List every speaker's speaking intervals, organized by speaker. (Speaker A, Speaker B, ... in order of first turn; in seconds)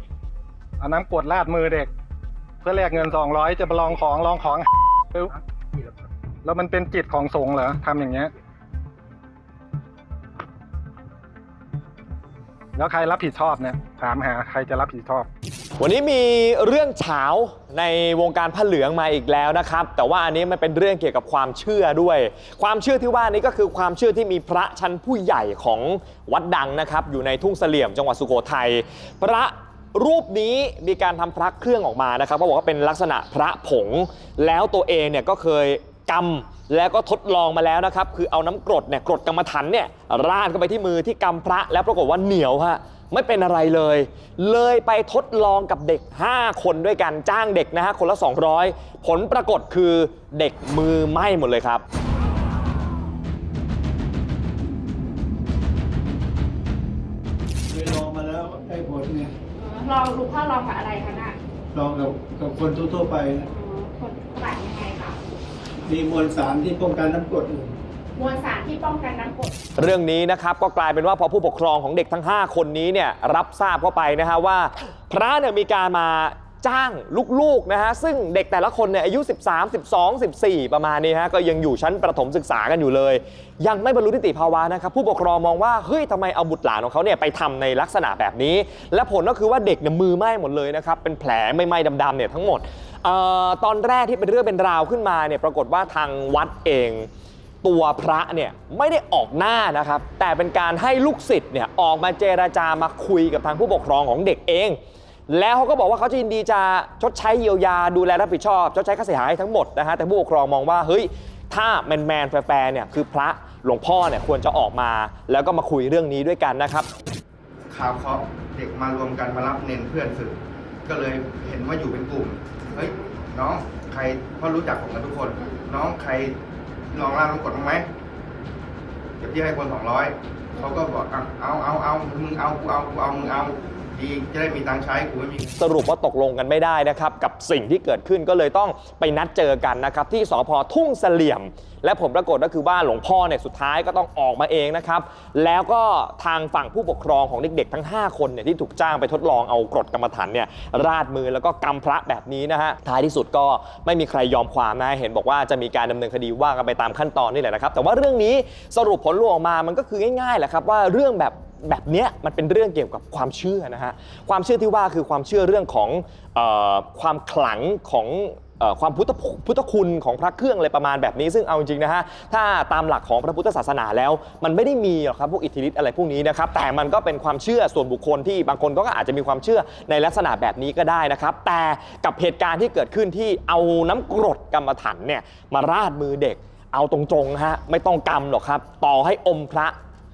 Speaker A: 0.8-1.9, 2.6-5.4, 6.4-8.3, 12.8-15.3
Speaker B: 15.8-51.8, 69.8-97.1, 97.6-116.9, 135.6-189.8
Speaker C: 57.7-59.3, 61.7-63.5, 65.9-67.8
Speaker D: 59.6-61.4, 63.5-65.2, 68.2-69.5, 122.7-123.2, 125.4-125.7, 130.6-130.8, 133.2-133.8
Speaker E: 117.7-126.4, 126.9-127.9, 129.2-135.5